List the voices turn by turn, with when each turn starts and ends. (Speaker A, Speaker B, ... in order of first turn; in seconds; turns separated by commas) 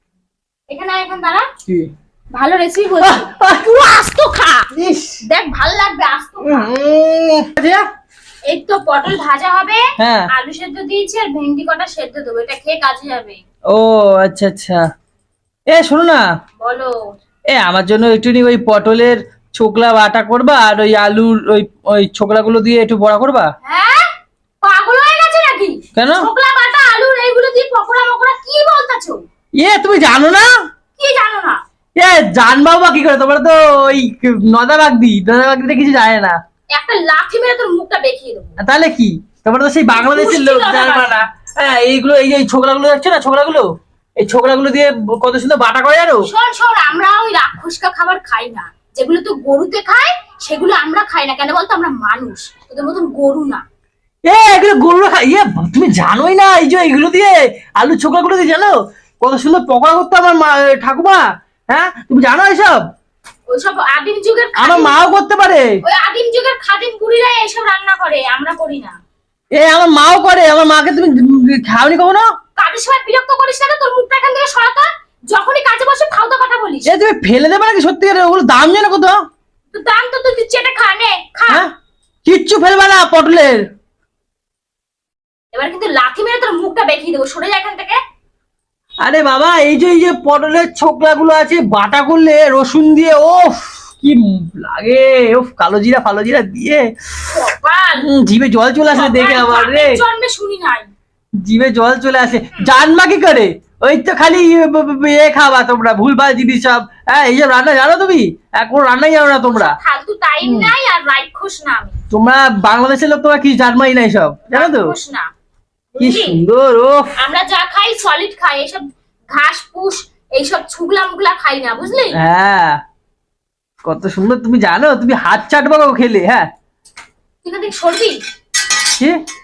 Speaker A: 0.7-1.5, Speaker A: 2.3-3.3, Speaker B: 3.0-5.2, Speaker A: 5.2-6.7, Speaker B: 6.4-7.8, Speaker A: 8.5-13.4, Speaker B: 10.0-10.3, Speaker B: 13.7-14.8, Speaker B: 15.7-16.2, Speaker A: 16.6-17.1, Speaker B: 17.5-23.5, Speaker A: 23.6-24.1, Speaker A: 24.6-29.2, Speaker B: 25.9-26.3, Speaker B: 29.6-30.5, Speaker A: 31.0-31.6, Speaker B: 32.0-36.4, Speaker A: 36.7-38.5, Speaker B: 38.6-43.7, Speaker A: 39.9-41.2, Speaker B: 44.2-46.2, Speaker A: 46.2-53.6, Speaker B: 54.3-62.8, Speaker A: 63.5-65.0, Speaker B: 64.6-65.7, Speaker A: 65.8-69.0, Speaker B: 69.5-72.3, Speaker A: 72.6-76.9, Speaker B: 76.9-79.2, Speaker A: 79.7-81.6, Speaker B: 82.2-83.6, Speaker A: 85.5-88.0, Speaker B: 89.0-96.8, Speaker A: 97.3-98.1, Speaker B: 98.0-100.0, Speaker A: 98.9-100.9, Speaker B: 101.4-109.8, Speaker A: 109.5-112.0, Speaker B: 110.4-110.7, Speaker B: 112.1-115.0, Speaker A: 114.5-115.3, Speaker A: 115.9-116.4, Speaker B: 116.0-117.1, Speaker A: 117.2-122.2, Speaker B: 122.1-122.8, Speaker B: 123.8-126.5, Speaker A: 127.4-128.2